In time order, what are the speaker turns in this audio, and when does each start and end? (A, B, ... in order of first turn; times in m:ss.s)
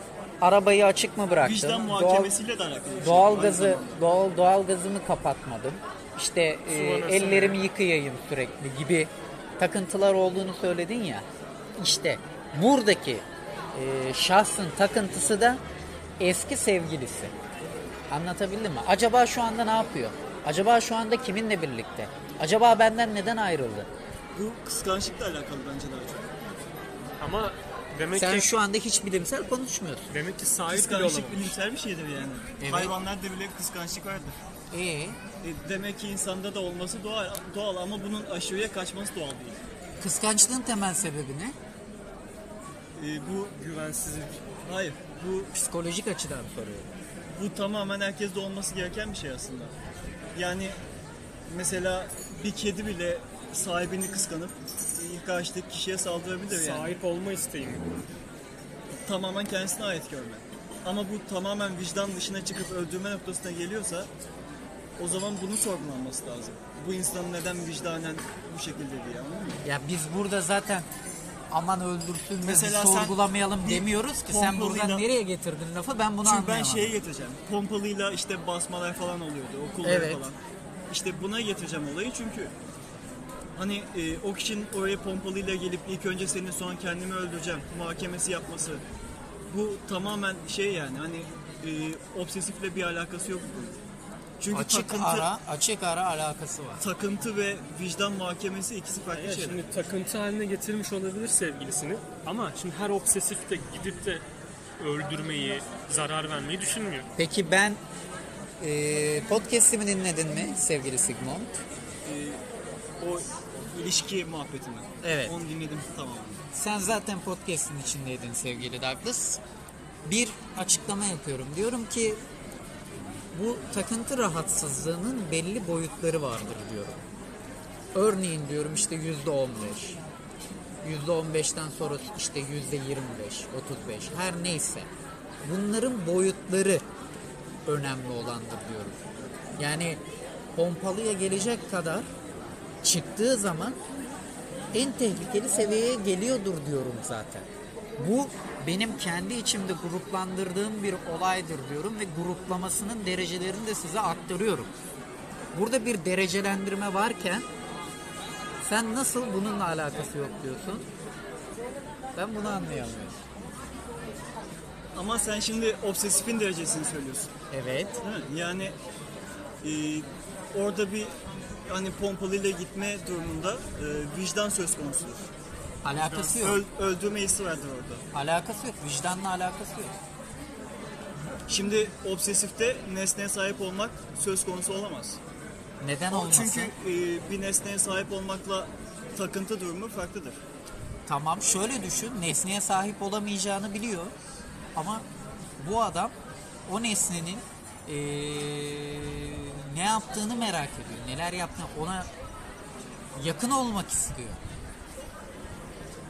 0:00.4-0:02.3 A
0:01.4-0:04.0 B
0:03.0-0:11.3 A
0:06.7-0:07.6 C
0:11.8-0:15.6 A
0:16.2-0:17.3 A
0:18.1-0:23.9 A
0:24.4-0:26.3 B
0:27.2-0:28.5 C
0:28.1-0:30.1 A
0:30.1-0:31.6 C
0:30.7-0:34.4 B
0:32.6-0:32.9 A
0:34.7-0:35.2 A
0:35.4-0:39.6 B
0:40.0-0:41.6 A
0:43.0-0:43.6 B
0:43.6-0:44.4 C
0:44.6-0:45.5 B
0:45.5-0:46.9 A
0:47.3-0:49.7 B
0:50.4-0:50.8 B
0:51.5-0:56.9 B
0:56.5-0:57.8 C
0:59.0-1:04.1 B
1:05.0-1:09.6 B
1:09.6-1:10.9 A
1:11.5-1:17.0 A
1:12.4-1:15.1 B
1:16.2-1:20.4 B
1:19.8-1:20.3 A
1:20.9-1:22.5 B
1:23.6-1:28.8 B
1:29.5-1:33.8 B
1:34.4-1:35.3 B
1:34.5-1:36.8 A
1:36.8-1:39.6 B
1:39.1-1:44.2 C
1:44.8-1:47.1 C
1:47.2-1:47.8 A
1:48.6-1:51.6 A
1:52.0-1:52.4 B
1:53.0-1:56.4 B
1:55.0-1:55.3 A
1:56.5-1:59.4 A
2:00.1-2:02.2 A
2:03.3-2:07.0 A
2:07.9-2:10.0 A
2:10.8-2:14.9 A
2:15.4-2:16.8 A
2:17.7-2:19.0 A
2:19.6-2:20.0 A
2:20.6-2:22.1 A
2:22.8-2:23.8 A
2:24.7-2:27.5 A
2:28.0-2:34.7 A
2:35.5-2:37.5 A
2:38.6-2:40.9 A
2:42.2-2:43.2 A
2:45.0-2:47.3 B
2:47.5-2:48.0 A
2:48.0-2:48.8 B
2:49.6-2:51.2 B
2:51.7-2:55.3 B
2:55.8-2:56.6 A
2:56.0-2:58.0 B
2:58.1-3:00.0 A
3:01.5-3:05.2 B
3:05.8-3:06.7 A
3:06.1-3:10.4 B
3:11.1-3:14.1 A
3:14.8-3:15.0 A
3:15.6-3:16.1 A
3:16.7-3:22.1 A
3:23.2-3:24.4 A